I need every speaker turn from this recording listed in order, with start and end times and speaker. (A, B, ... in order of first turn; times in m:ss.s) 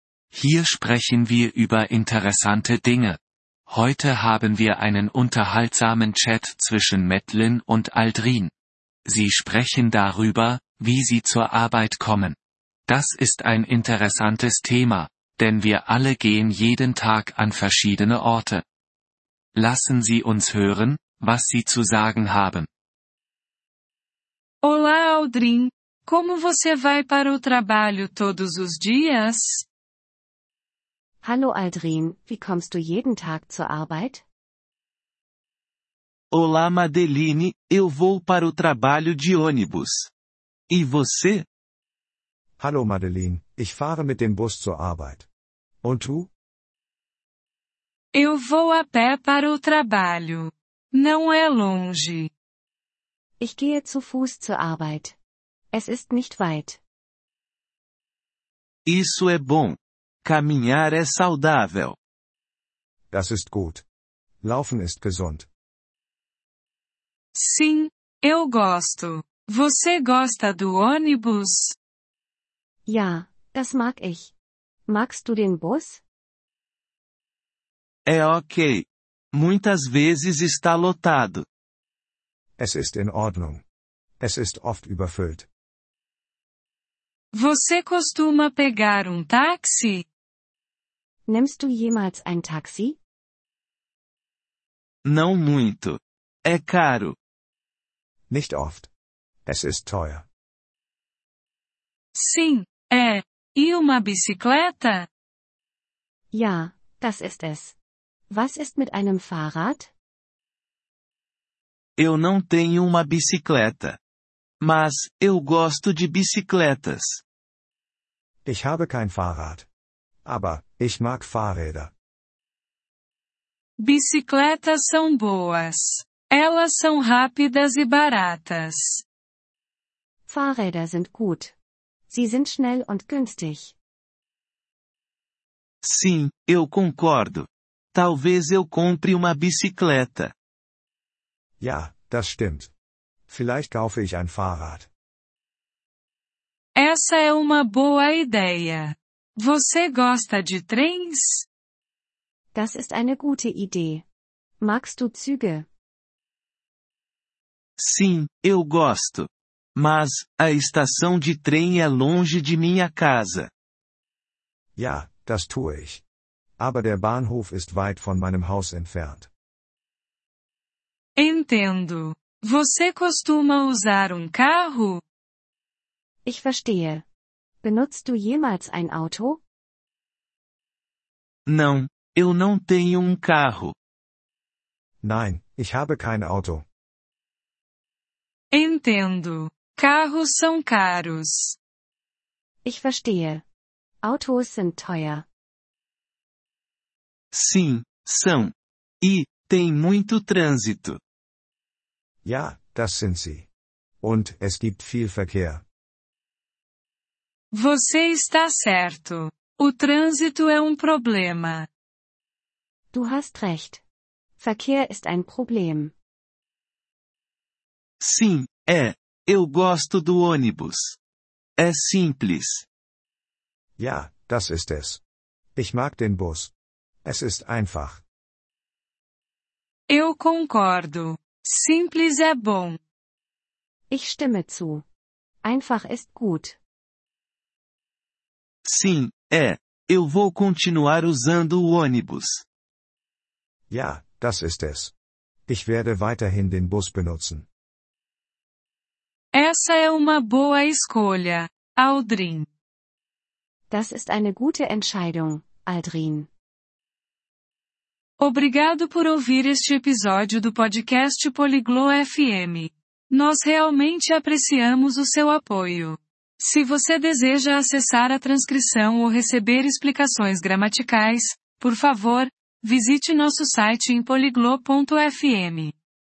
0:00.3-0:08.5 A
0:09.0-0:12.4 A
0:12.9-0:18.6 A
0:19.6-0:22.7 A
0:24.6-0:29.7 B
0:31.2-0:34.2 C
0:36.3-0:40.1 D
0:40.7-0:41.5 D
0:42.6-0:45.3 E
0:45.8-0:46.3 E
0:48.1-0:52.3 B
0:53.4-0:55.2 C
0:55.7-0:56.8 C
0:58.9-1:02.0 D
1:03.1-1:03.8 E
1:04.4-1:05.5 E
1:07.4-1:11.8 B
1:12.9-1:14.3 C
1:14.9-1:16.0 C
1:18.1-1:21.4 D
1:22.6-1:23.6 E
1:24.2-1:25.5 E
1:27.3-1:30.0 B
1:31.3-1:33.0 C
1:35.0-1:37.2 D
1:38.3-1:38.9 E
1:39.5-1:40.3 E
1:42.2-1:45.1 B
1:46.3-1:47.8 C
1:48.3-1:49.9 C
1:52.0-1:54.0 D
1:54.6-1:57.2 D
1:58.4-1:59.7 E
2:00.2-2:01.9 E
2:03.8-2:09.0 B
2:10.3-2:11.5 C
2:12.1-2:13.8 C
2:15.8-2:20.3 D
2:21.6-2:22.7 E
2:23.3-2:24.9 E
2:26.8-2:31.4 B
2:32.5-2:34.0 C
2:34.6-2:35.7 C
2:37.8-2:43.5 D
2:44.8-2:46.0 E
2:46.6-2:49.3 E
2:51.2-2:55.0 B
2:56.2-2:57.0 C
2:57.6-2:59.4 C
3:01.5-3:03.8 D
3:05.0-3:06.7 E
3:08.5-3:11.6 B
3:12.6-3:13.4 C
3:14.0-3:15.3 C
3:17.3-3:21.0 D
3:22.2-3:23.5 E
3:24.0-3:25.6 E
3:27.5-3:31.7 B
3:32.9-3:33.8 C
3:34.4-3:35.9 C
3:38.0-3:41.0 D
3:41.6-3:42.7 D
3:43.8-3:45.0 E
3:45.6-3:46.5 E
3:47.0-3:48.0 E
3:49.9-3:52.8 B
3:53.9-3:54.8 C
3:55.4-3:56.6 C
3:58.6-4:02.4 D
4:03.7-4:04.9 E
4:05.5-4:07.5 E
4:09.3-4:12.5 B
4:13.7-4:16.3 C
4:18.2-4:35.8 B